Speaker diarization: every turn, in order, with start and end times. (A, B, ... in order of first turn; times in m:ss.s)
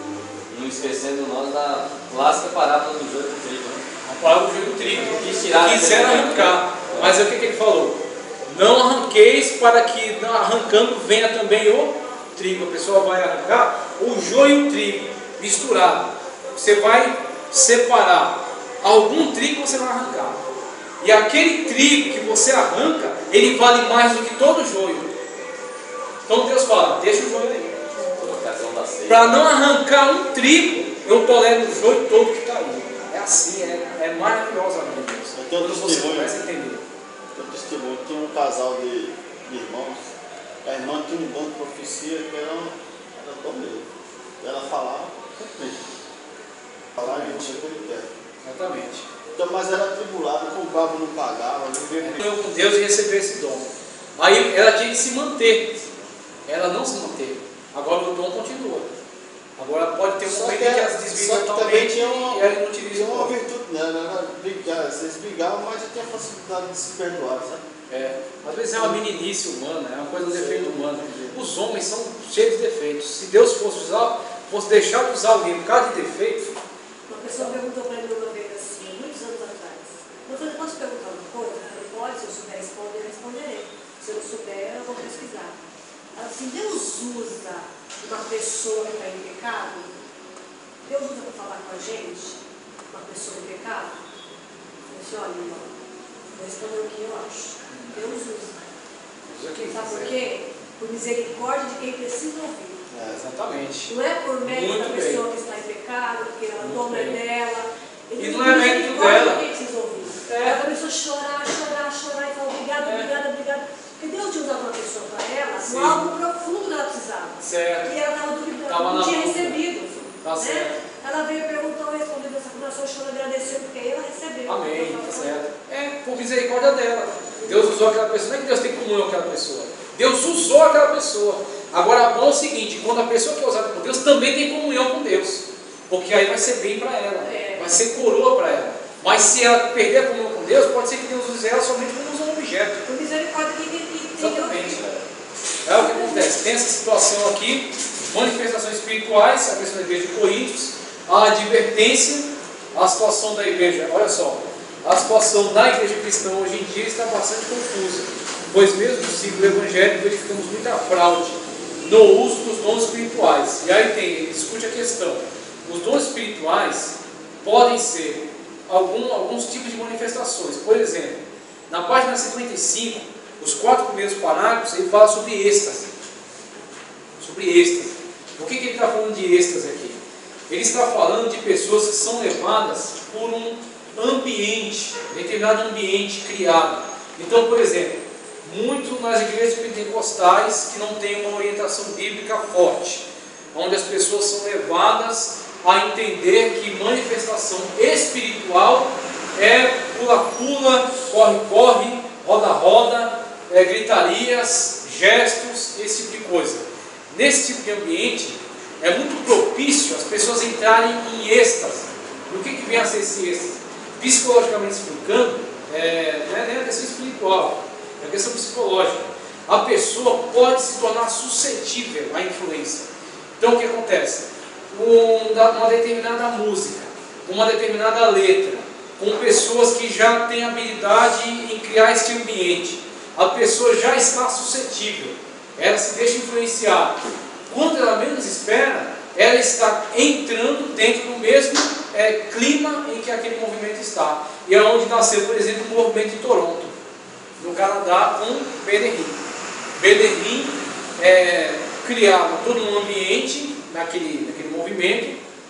0:00.5-0:03.8 A
0:04.1-0:20.4 B
0:04.8-0:07.2 A
0:21.0-0:25.1 B
0:26.3-0:27.8 B
0:28.1-0:29.4 A
0:29.1-0:36.8 B
0:35.3-0:36.4 C
0:37.4-0:40.1 C
0:40.6-0:43.9 C
0:44.4-0:45.8 C
0:47.0-0:48.1 C
0:47.0-0:47.6 B
0:48.4-0:49.1 B
0:49.4-0:52.2 C
0:52.0-0:55.8 B
0:56.5-0:58.9 B
0:59.6-1:03.3 B
1:00.2-1:07.6 C
1:07.9-1:16.6 B
1:10.3-1:11.4 C
1:17.1-1:25.5 D
1:26.2-1:29.9 D
1:30.9-1:32.4 D
1:32.9-1:33.9 D
1:34.9-1:35.7 D
1:36.3-1:38.5 D
1:37.7-1:38.0 B
1:39.3-1:40.1 B
1:39.7-1:42.8 D
1:42.9-1:43.2 C
1:43.2-1:45.2 B
1:43.9-2:05.4 D
1:46.6-1:47.2 B
1:48.2-1:49.4 B
1:50.3-1:50.6 B
1:52.8-1:53.1 B
1:55.6-1:56.0 B
1:57.4-1:57.9 B
1:58.7-1:59.6 B
2:00.2-2:00.8 B
2:04.5-2:22.8 B
2:17.2-2:17.7 D
2:22.8-2:24.9 D
2:24.2-2:24.8 B
2:25.6-2:55.9 B
2:25.7-2:26.3 D
2:57.2-3:42.9 B
3:43.4-4:06.8 B
4:07.4-4:09.2 B
4:09.8-4:15.2 B